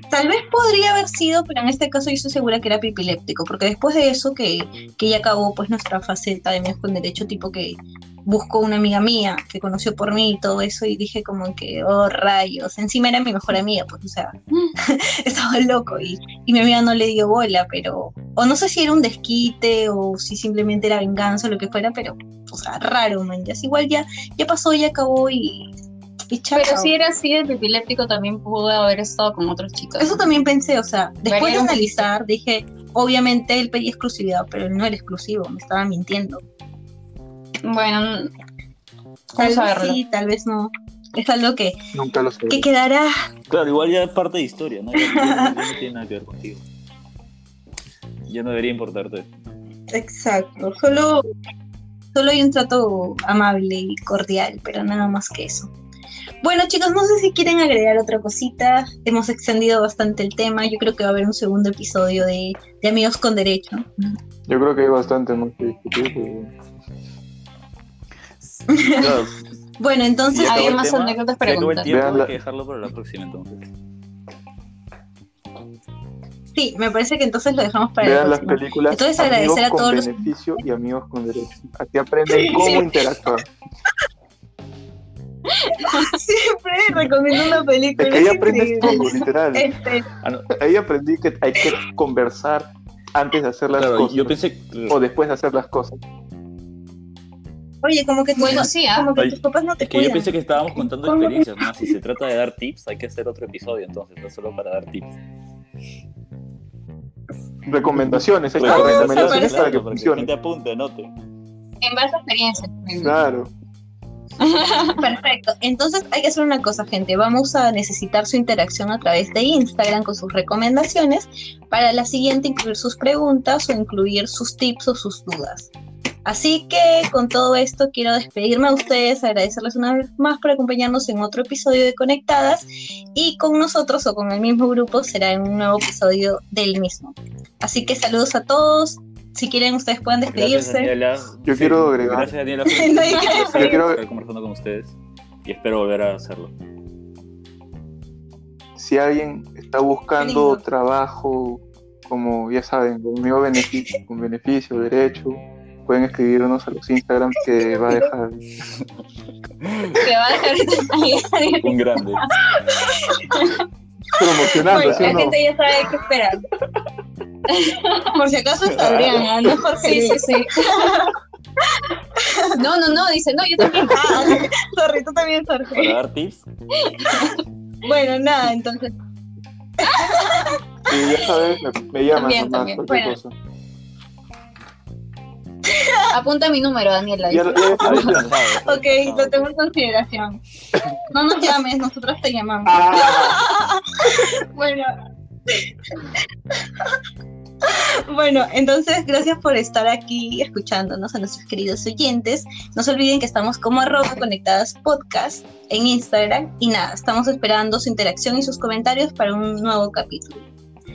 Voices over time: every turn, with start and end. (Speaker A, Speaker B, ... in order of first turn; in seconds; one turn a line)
Speaker A: 0.1-25.7
Speaker A: 26.3-26.9
Speaker B: 26.6-30.2
Speaker A: 30.0-36.4
Speaker B: 31.3-32.1
Speaker B: 37.6-38.3
Speaker B: 39.3-40.0
Speaker A: 39.4-41.8
Speaker C: 41.9-42.7
Speaker A: 42.5-43.1
Speaker D: 43.5-46.6
Speaker A: 45.0-45.7
Speaker D: 48.3-49.3
Speaker A: 49.9-51.2
Speaker A: 52.1-55.7
Speaker A: 56.4-63.9
Speaker C: 64.5-66.5
Speaker D: 68.7-69.4
Speaker A: 68.7-69.2
Speaker A: 69.8-70.8
Speaker D: 70.3-73.7
Speaker B: 70.5-71.9
Speaker C: 71.9-72.3
Speaker A: 76.5-80.3
Speaker C: 78.0-83.5
Speaker A: 82.3-83.0
Speaker B: 85.6-86.1
Speaker A: 85.9-90.1
Speaker C: 88.0-89.7
Speaker D: 90.2-90.5
Speaker C: 90.5-94.4
Speaker D: 93.8-95.0
Speaker C: 94.9-96.0
Speaker A: 97.8-101.5
Speaker B: 98.4-99.1
Speaker D: 99.2-105.2
Speaker C: 107.7-110.3
Speaker D: 108.6-111.1
Speaker A: 108.6-109.8
Speaker B: 111.8-113.2
Speaker C: 113.0-113.5
Speaker B: 114.4-115.0
Speaker A: 115.0-125.7
Speaker A: 126.3-140.9
Speaker D: 140.3-146.5
Speaker C: 141.4-142.3
Speaker A: 142.7-143.8
Speaker C: 143.6-144.0
Speaker C: 148.8-158.4
Speaker A: 150.2-150.6
Speaker D: 159.6-160.0
Speaker B: 159.9-161.8
Speaker D: 161.6-162.3
Speaker B: 162.7-163.6
Speaker C: 164.2-165.4
Speaker A: 164.6-165.4
Speaker B: 164.7-166.4
Speaker B: 167.5-168.1
Speaker A: 168.1-171.2
Speaker D: 168.7-169.3
Speaker B: 169.8-171.0
Speaker A: 171.8-172.5
Speaker B: 172.6-174.4
Speaker A: 173.6-176.0
Speaker D: 175.7-176.5
Speaker B: 176.8-177.4
Speaker A: 177.8-178.9
Speaker A: 179.8-180.6
Speaker C: 180.9-183.3
Speaker B: 182.1-183.2
Speaker A: 185.7-186.1
Speaker B: 186.1-188.1
Speaker C: 187.3-188.3
Speaker D: 187.8-189.5
Speaker A: 188.6-190.4
Speaker A: 191.1-194.9
Speaker C: 192.7-193.4
Speaker A: 195.5-196.1
Speaker A: 197.6-210.4